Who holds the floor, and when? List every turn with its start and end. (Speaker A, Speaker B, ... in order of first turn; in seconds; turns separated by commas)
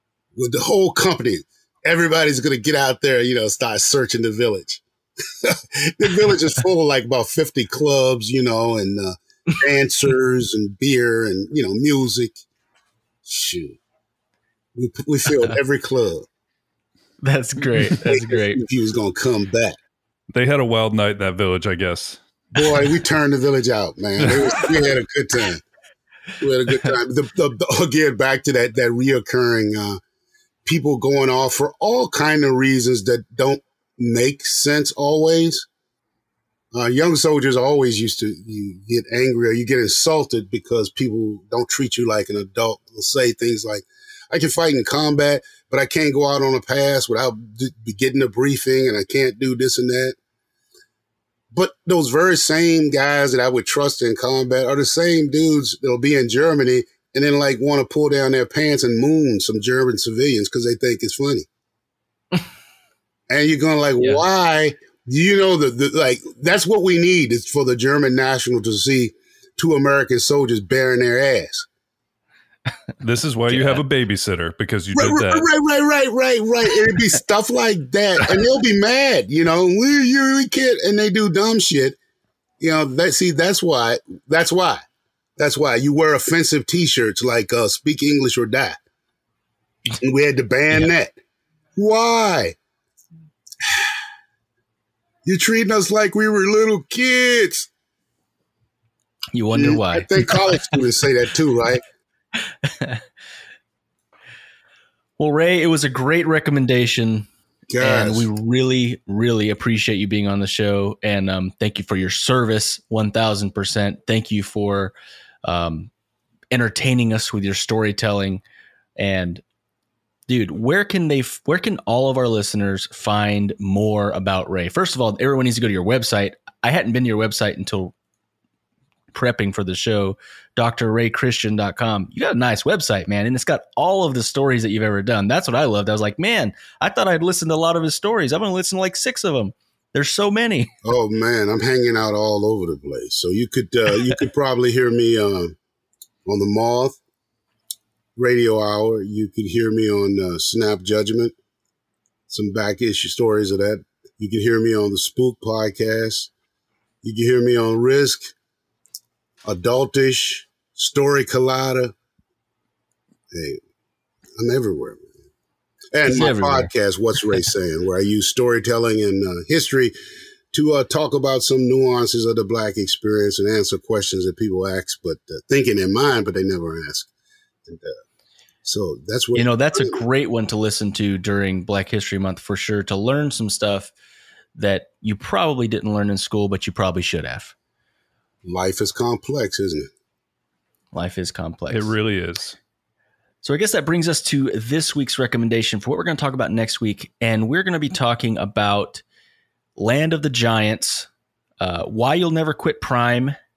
Speaker A: 0.3-4.8, Speaker A: 5.4-12.3, Speaker A: 13.2-13.8, Speaker A: 14.7-16.3, Speaker B: 17.2-18.6, Speaker A: 18.0-19.8, Speaker C: 20.3-22.2, Speaker A: 22.5-25.6, Speaker A: 26.4-30.0, Speaker A: 30.6-35.7, Speaker A: 36.7-50.1, Speaker A: 51.5-61.5, Speaker A: 63.3-71.7, Speaker B: 64.0-64.2, Speaker C: 73.0-75.5, Speaker B: 73.5-73.8, Speaker A: 74.9-82.0, Speaker A: 82.6-84.8, Speaker A: 85.4-88.8, Speaker A: 90.0-91.2, Speaker A: 91.7-92.5, Speaker A: 95.2-97.7, Speaker B: 99.3-100.8, Speaker A: 99.5-101.8, Speaker B: 102.6-103.0, Speaker B: 105.2-107.3, Speaker A: 107.7-108.3, Speaker B: 107.8-115.9, Speaker B: 116.5-118.4, Speaker B: 119.0-119.4, Speaker B: 120.3-127.9, Speaker B: 129.1-140.7, Speaker A: 140.8-145.6, Speaker A: 146.2-147.0, Speaker A: 148.2-151.3, Speaker A: 152.3-156.3, Speaker A: 157.0-158.3, Speaker A: 159.4-161.9, Speaker A: 163.3-163.6, Speaker A: 164.4-165.1, Speaker A: 165.9-169.9, Speaker B: 166.1-166.7, Speaker A: 170.5-177.1, Speaker A: 177.7-177.9, Speaker A: 178.6-180.0, Speaker B: 179.3-183.9, Speaker B: 184.6-187.5, Speaker A: 188.4-189.9, Speaker B: 190.9-191.9, Speaker C: 191.7-192.6, Speaker B: 193.4-199.0, Speaker B: 199.8-201.1, Speaker B: 201.6-203.3